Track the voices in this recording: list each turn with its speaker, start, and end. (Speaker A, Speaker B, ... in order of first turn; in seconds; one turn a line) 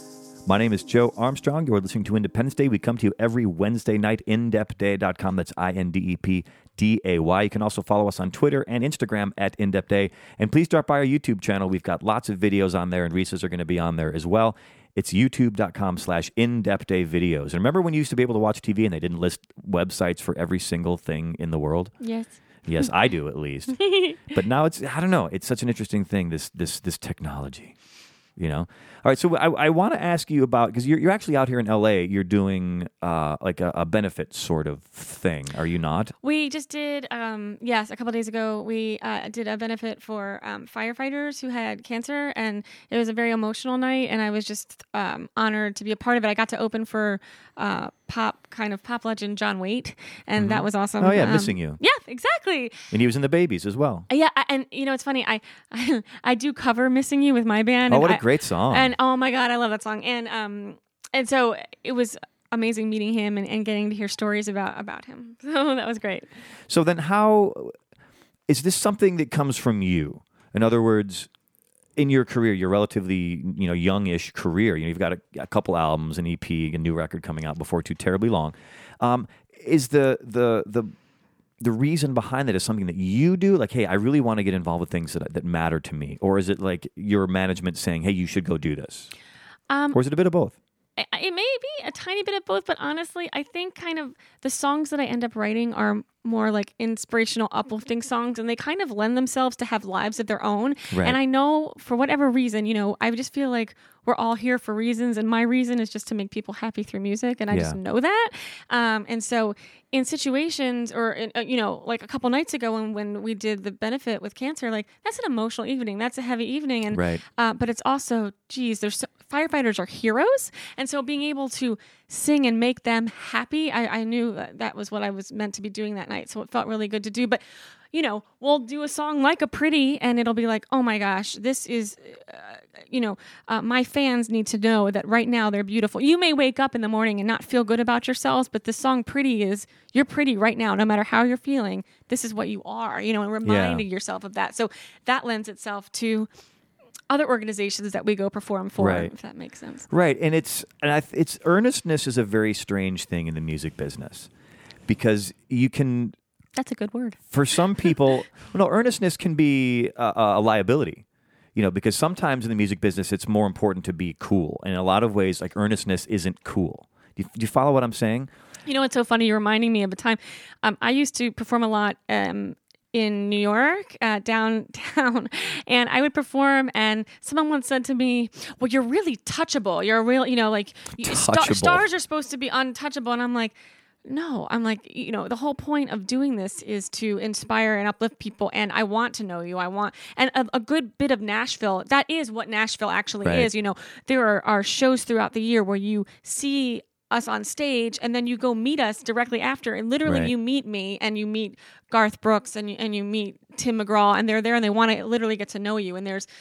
Speaker A: 0.5-21.9
Speaker B: 22.0-22.4
Speaker A: 22.6-27.7
Speaker B: 23.8-24.2
Speaker A: 28.4-36.1
Speaker B: 36.2-52.9
Speaker A: 50.4-51.8
Speaker A: 52.9-54.1
Speaker B: 54.1-66.3
Speaker A: 57.9-58.9
Speaker A: 66.7-67.7
Speaker A: 68.5-71.3
Speaker A: 72.0-80.9
Speaker A: 81.6-89.1
Speaker B: 89.7-90.0
Speaker A: 89.9-90.5
Speaker B: 91.0-146.3
Speaker A: 100.9-101.2
Speaker A: 107.5-107.8
Speaker A: 116.9-117.2
Speaker A: 143.4-143.8
Speaker B: 147.1-149.9
Speaker A: 148.8-149.1
Speaker A: 149.9-154.3
Speaker A: 154.9-156.2
Speaker B: 156.6-157.2
Speaker A: 157.3-161.0
Speaker A: 161.6-168.3
Speaker B: 168.7-206.3
Speaker A: 181.0-181.9
Speaker A: 193.2-193.5
Speaker A: 200.1-200.3